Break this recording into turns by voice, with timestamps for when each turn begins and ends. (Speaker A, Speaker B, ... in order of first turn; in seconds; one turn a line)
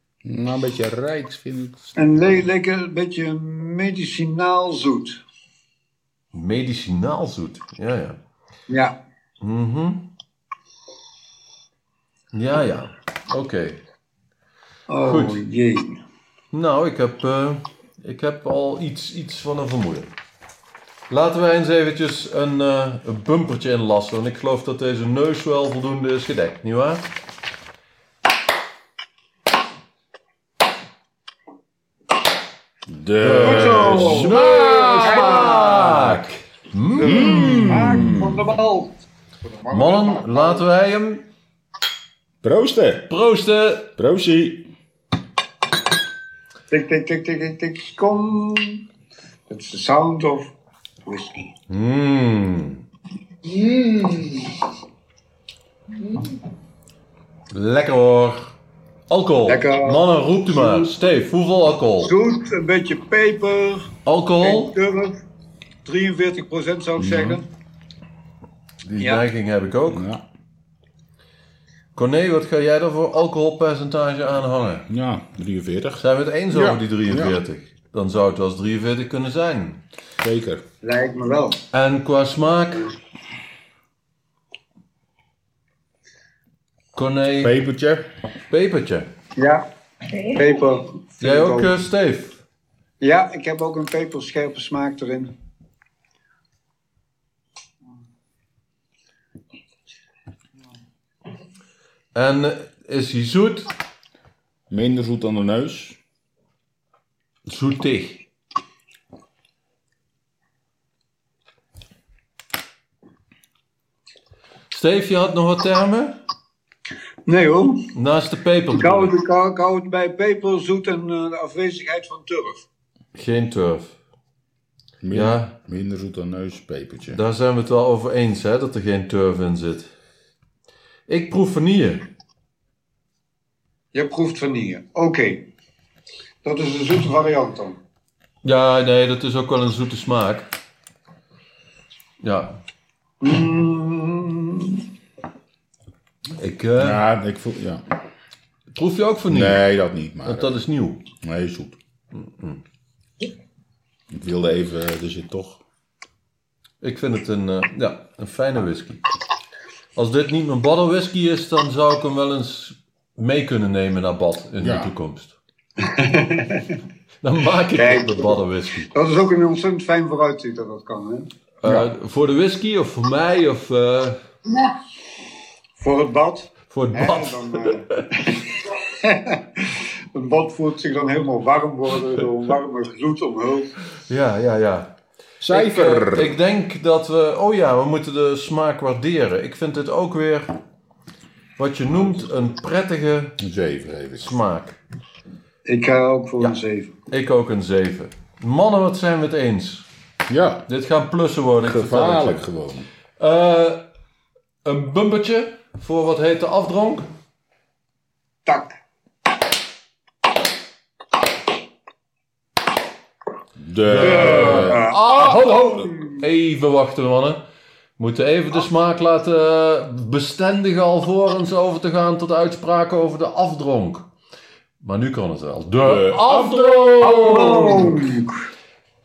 Speaker A: 0.2-2.5
Speaker B: 2.0-5.2
Speaker C: 6.3-8.2
Speaker B: 8.7-9.0
Speaker C: 9.4-10.1
Speaker C: 12.3-13.8
Speaker B: 14.9-15.9
Speaker C: 15.0-15.4
Speaker C: 16.5-20.1
Speaker C: 21.1-27.0
Speaker A: 32.9-36.2
Speaker C: 33.2-38.0
Speaker B: 33.4-35.9
Speaker A: 37.0-38.5
Speaker B: 37.0-40.7
Speaker C: 39.7-41.2
Speaker A: 42.4-43.1
Speaker C: 43.1-43.9
Speaker A: 44.0-44.7
Speaker B: 46.7-48.8
Speaker B: 49.5-50.5
Speaker B: 51.1-51.5
Speaker C: 51.7-52.8
Speaker B: 53.7-54.3
Speaker C: 57.5-58.5
Speaker C: 59.1-62.1
Speaker B: 59.5-61.0
Speaker B: 62.0-63.9
Speaker C: 64.0-64.8
Speaker B: 64.4-65.2
Speaker B: 65.8-67.5
Speaker A: 67.0-67.4
Speaker C: 68.8-70.0
Speaker B: 69.0-69.3
Speaker A: 69.9-70.2
Speaker C: 72.0-74.9
Speaker A: 74.9-77.4
Speaker C: 76.0-79.8
Speaker A: 80.2-80.7
Speaker B: 80.8-81.6
Speaker C: 81.7-82.9
Speaker C: 87.0-87.6
Speaker A: 87.4-88.1
Speaker C: 88.5-89.1
Speaker B: 89.4-89.6
Speaker B: 90.2-91.7
Speaker C: 91.2-92.4
Speaker B: 93.0-95.3
Speaker C: 102.2-103.7
Speaker A: 104.7-106.0
Speaker C: 107.5-108.2
Speaker C: 114.7-116.2
Speaker B: 117.3-117.8
Speaker C: 117.9-119.1
Speaker B: 118.7-122.7
Speaker C: 123.2-124.0
Speaker A: 125.0-127.2
Speaker C: 125.1-125.5
Speaker C: 127.1-129.9
Speaker C: 131.1-132.1
Speaker B: 133.9-135.4
Speaker B: 136.4-137.8
Speaker C: 138.4-140.5
Speaker C: 142.2-142.6
Speaker B: 143.2-144.8
Speaker C: 146.4-147.0
Speaker A: 146.8-147.8
Speaker C: 148.7-149.7
Speaker A: 149.3-150.6
Speaker C: 150.2-151.0
Speaker A: 151.2-151.8
Speaker C: 152.1-152.6
Speaker A: 154.1-155.6
Speaker C: 156.8-159.1
Speaker C: 160.0-165.4
Speaker A: 164.6-164.9
Speaker B: 165.8-166.7
Speaker C: 167.2-168.9
Speaker B: 167.8-168.4
Speaker B: 168.9-171.3
Speaker C: 171.6-174.2
Speaker B: 175.8-183.8
Speaker C: 176.7-178.0
Speaker C: 184.1-184.9
Speaker A: 185.4-186.4
Speaker C: 185.5-190.5
Speaker C: 191.6-193.4
Speaker A: 193.4-194.3
Speaker C: 194.2-194.8
Speaker B: 195.7-196.9
Speaker C: 197.1-199.9
Speaker A: 200.3-200.7
Speaker C: 200.7-202.4
Speaker A: 201.6-202.9
Speaker C: 203.2-203.8
Speaker C: 204.7-207.1
Speaker B: 208.5-208.8
Speaker A: 213.6-214.9
Speaker C: 213.8-217.4
Speaker B: 214.0-216.2
Speaker C: 218.0-224.1
Speaker C: 224.8-228.0
Speaker A: 225.8-228.0
Speaker B: 227.1-228.4